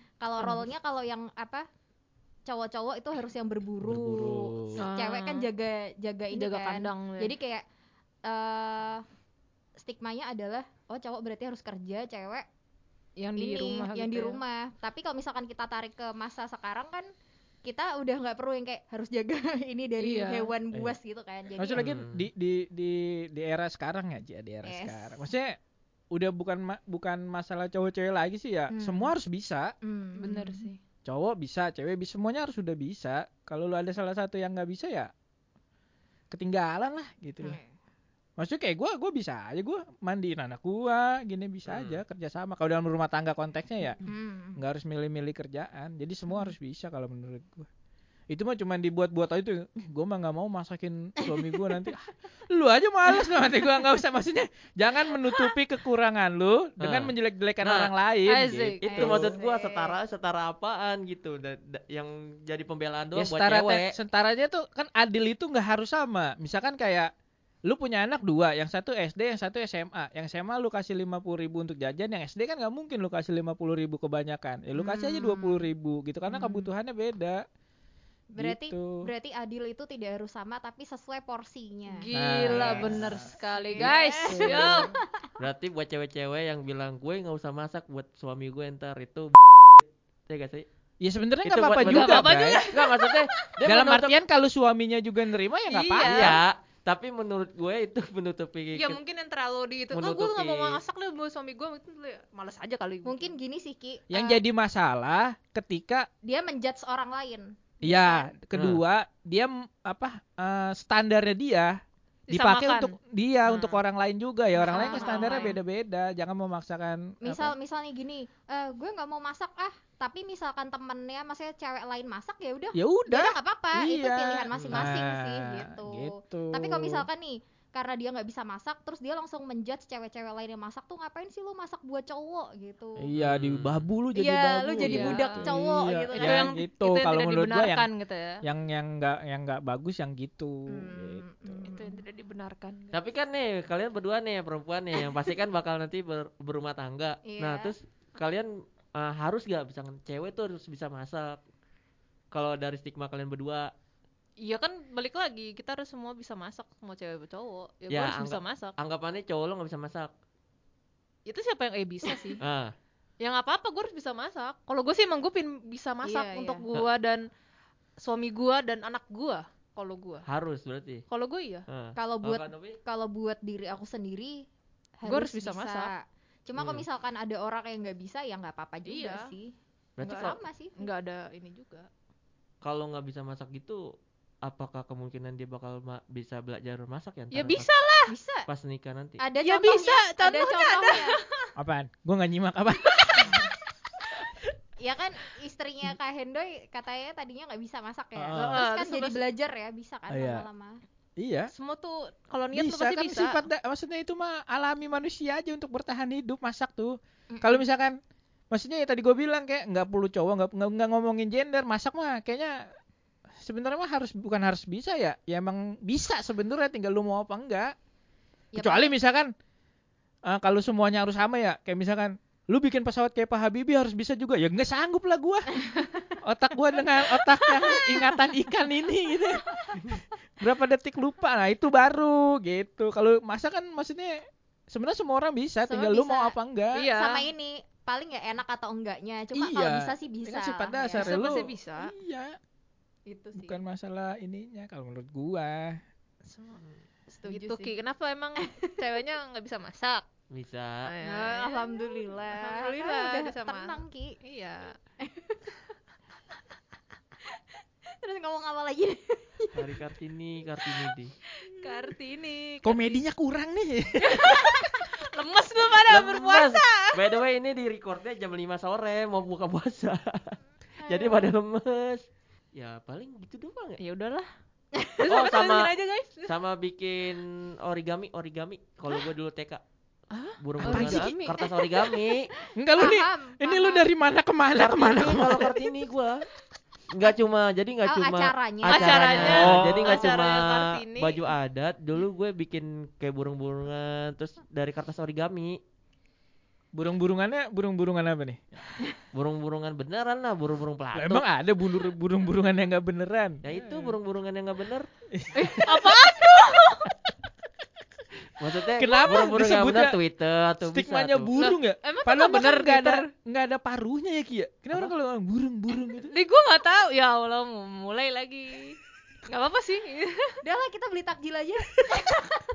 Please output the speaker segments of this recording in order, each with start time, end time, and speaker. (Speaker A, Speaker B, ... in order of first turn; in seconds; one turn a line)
Speaker A: 0.2-1.6
Speaker B: 0.4-0.7
Speaker A: 2.5-7.6
Speaker C: 3.8-4.8
Speaker B: 4.8-5.5
Speaker B: 6.3-7.3
Speaker A: 8.2-9.0
Speaker A: 9.8-12.4
Speaker B: 13.2-14.4
Speaker A: 13.4-17.0
Speaker A: 17.6-21.9
Speaker B: 20.0-20.5
Speaker C: 21.6-25.6
Speaker D: 21.7-22.3
Speaker A: 24.6-25.3
Speaker C: 26.1-29.7
Speaker A: 28.7-29.1
Speaker A: 29.8-30.7
Speaker B: 30.2-30.8
Speaker C: 31.1-35.1
Speaker C: 36.3-37.6
Speaker A: 37.4-37.7
Speaker C: 38.4-44.0
Speaker D: 41.7-42.0
Speaker A: 44.0-44.6
Speaker C: 44.6-47.7
Speaker C: 48.3-59.3
Speaker A: 51.3-51.9
Speaker D: 56.8-57.9
Speaker B: 58.2-59.0
Speaker D: 58.8-64.0
Speaker A: 58.9-60.0
Speaker C: 63.1-67.1
Speaker C: 67.7-77.4
Speaker A: 74.8-75.7
Speaker A: 76.3-76.7
Speaker A: 78.3-85.3
Speaker C: 78.4-79.0
Speaker B: 81.9-84.9
Speaker C: 82.1-84.9
Speaker D: 85.4-90.7
Speaker C: 91.0-92.7
Speaker D: 91.4-94.2
Speaker B: 91.8-93.2
Speaker C: 93.6-96.4
Speaker B: 95.7-96.4
Speaker D: 96.0-99.0
Speaker B: 98.7-103.3
Speaker D: 99.9-100.8
Speaker A: 103.0-104.4
Speaker C: 104.1-106.1
Speaker A: 106.2-108.3
Speaker C: 107.8-111.8
Speaker D: 108.5-108.8
Speaker B: 112.3-112.9
Speaker C: 112.3-117.5
Speaker B: 113.5-113.8
Speaker A: 114.6-115.6
Speaker B: 114.6-115.5
Speaker A: 117.2-133.1
Speaker C: 122.7-127.0
Speaker D: 124.5-125.0
Speaker C: 133.0-137.9
Speaker D: 133.1-133.8
Speaker A: 134.1-136.6
Speaker B: 134.8-138.4
Speaker C: 138.4-141.7
Speaker A: 140.7-142.0
Speaker B: 141.7-143.0
Speaker D: 142.9-151.4
Speaker A: 147.2-147.7
Speaker D: 152.3-153.7
Speaker B: 154.4-158.7
Speaker D: 157.9-160.1
Speaker B: 161.2-162.4
Speaker D: 162.4-162.7
Speaker B: 163.2-167.2
Speaker A: 166.0-166.7
Speaker B: 168.0-170.2
Speaker D: 170.2-171.0
Speaker B: 171.1-171.7
Speaker D: 171.7-172.8
Speaker A: 171.9-174.4
Speaker A: 175.0-179.5
Speaker B: 175.1-175.9
Speaker D: 176.6-176.8
Speaker B: 178.8-179.2
Speaker D: 180.0-180.4
Speaker B: 180.0-181.9
Speaker A: 180.1-180.9
Speaker D: 182.6-183.8
Speaker D: 184.4-187.7
Speaker B: 187.3-188.1
Speaker A: 188.1-188.4
Speaker D: 188.5-189.2
Speaker A: 189.2-191.2
Speaker B: 189.4-191.5
Speaker C: 191.6-193.4
Speaker B: 193.0-193.4
Speaker A: 194.8-200.8
Speaker C: 198.2-198.6
Speaker B: 198.3-199.2
Speaker C: 200.1-200.4
Speaker C: 201.2-201.5
Speaker B: 201.5-203.5
Speaker C: 202.5-207.9
Speaker A: 207.3-207.6
Speaker C: 208.5-212.6
Speaker C: 213.4-217.7
Speaker A: 218.5-219.0
Speaker C: 218.6-219.3
Speaker C: 220.2-225.5
Speaker C: 226.2-236.9
Speaker A: 227.6-228.1
Speaker A: 235.7-236.3
Speaker B: 236.8-237.3
Speaker A: 236.9-241.2
Speaker C: 239.3-242.4
Speaker B: 240.9-241.9
Speaker A: 243.1-243.6
Speaker C: 243.4-245.8
Speaker B: 246.3-246.6
Speaker A: 247.1-247.7
Speaker B: 247.2-250.1
Speaker A: 248.4-248.9
Speaker D: 250.3-250.9
Speaker B: 250.9-254.8
Speaker A: 251.0-254.1
Speaker A: 255.0-255.5
Speaker A: 258.0-259.7
Speaker D: 259.6-261.1
Speaker A: 260.7-261.8
Speaker B: 261.5-263.0
Speaker C: 262.6-264.5
Speaker B: 264.0-267.0
Speaker A: 264.6-264.9
Speaker D: 265.9-273.8
Speaker A: 270.8-271.3
Speaker B: 273.8-274.3
Speaker A: 274.8-275.1
Speaker B: 275.0-276.3
Speaker D: 275.1-275.7
Speaker D: 276.2-279.6
Speaker B: 280.1-281.9
Speaker D: 280.4-282.3
Speaker C: 280.6-281.1
Speaker C: 282.6-285.6
Speaker A: 282.7-283.9
Speaker D: 284.6-286.2
Speaker D: 286.9-295.6
Speaker A: 287.8-289.1
Speaker B: 288.7-291.2
Speaker C: 289.1-290.2
Speaker C: 296.7-298.6
Speaker D: 299.1-301.2
Speaker C: 300.9-303.9
Speaker D: 303.4-304.9
Speaker C: 305.1-306.1
Speaker B: 305.3-306.9
Speaker D: 308.4-311.3
Speaker C: 308.8-310.0
Speaker C: 310.6-316.1
Speaker B: 311.3-313.1
Speaker B: 316.0-320.3
Speaker A: 320.4-322.4